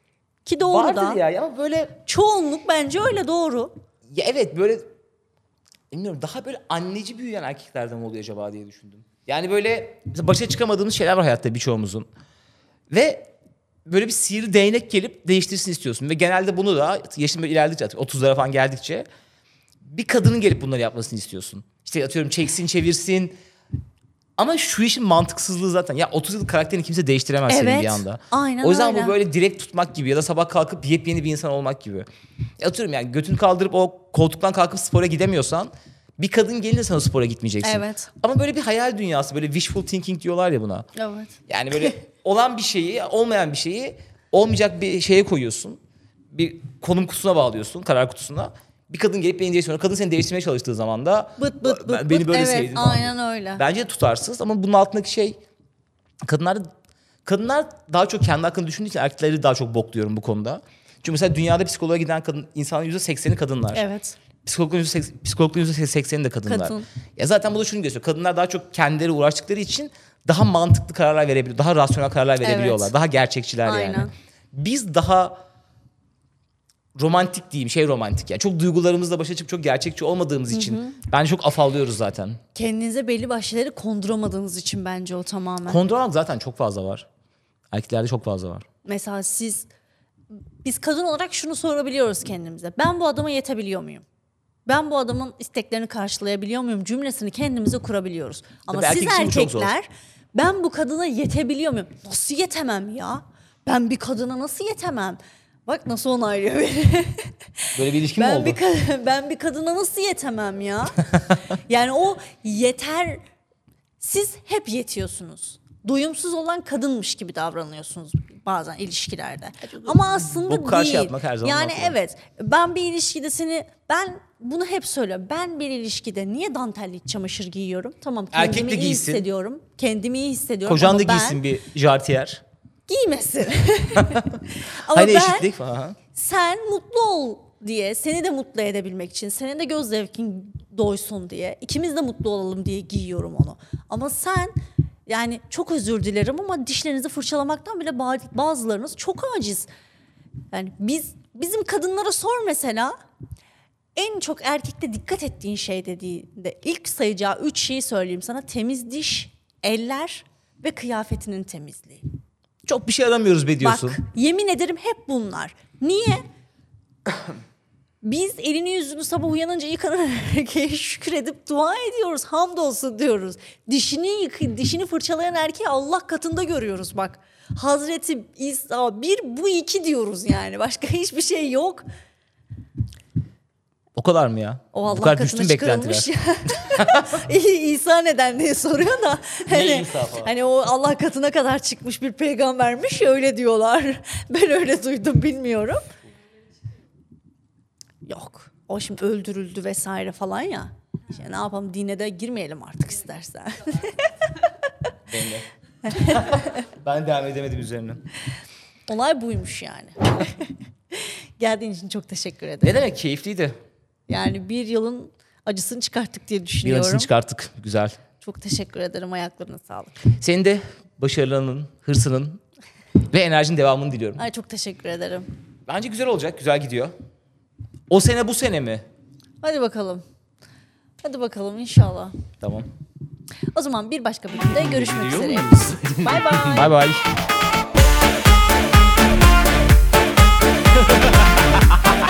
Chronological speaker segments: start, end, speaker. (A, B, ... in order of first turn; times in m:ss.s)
0:00.4-0:01.2 A
0:00.7-0:01.9 B
0:02.0-0:03.7 A
0:04.1-0:04.9 B
0:05.9-0:12.1 B
0:12.9-0:13.3 B
0:13.9-0:19.1 B
0:19.8-0:23.4 B
0:24.4-0:32.1 B
0:27.5-0:29.2 A
0:32.6-0:40.9 B
0:37.6-0:38.1 A
0:41.0-0:41.9 A
0:41.5-0:45.8 B
0:46.3-0:55.4 B
0:51.4-0:53.6 A
0:56.2-0:56.7 B
0:57.2-1:03.8 B
1:03.7-1:04.2 A
1:04.4-1:15.4 B
1:06.5-1:06.9 A
1:12.4-1:12.9 A
1:13.6-1:14.1 A
1:17.0-1:22.4 B
1:20.5-1:21.0 A
1:22.6-1:25.8 A
1:25.7-1:27.1 B
1:27.7-1:28.7 B
1:28.8-1:29.7 A
1:30.6-1:34.0 A
1:34.7-1:47.3 A
1:38.7-1:39.7 B
1:47.8-1:48.6 B
1:48.1-1:53.2 A
1:54.0-2:11.4 A
1:59.8-2:02.0 B
2:08.3-2:09.2 B
2:10.7-2:12.4 B
2:12.9-2:15.5 A
2:14.0-2:14.3 B
2:14.9-2:16.0 B
2:16.1-2:24.5 A
2:25.1-2:29.7 A
2:30.5-2:33.0 A
2:34.0-2:42.1 A
2:42.7-2:44.0 B
2:43.6-2:46.2 A
2:48.0-3:01.8 A
3:04.0-3:07.2 B
3:04.7-3:15.9 A
3:09.5-3:10.3 B
3:18.1-3:24.3 A
3:25.1-3:28.0 B
3:25.9-3:26.6 A
3:28.9-3:32.8 A
3:32.6-3:33.6 B
3:34.1-3:37.1 A
3:36.6-3:38.0 B
3:38.2-3:40.0 A
3:40.1-3:42.4 B
3:43.1-3:44.2 B
3:44.2-3:45.3 A
3:45.7-3:46.9 B
3:47.9-3:48.8 B
3:49.4-3:50.0 A
3:51.0-3:52.2 A
3:52.4-3:52.7 B
3:53.5-3:56.7 A
3:54.6-3:57.0 B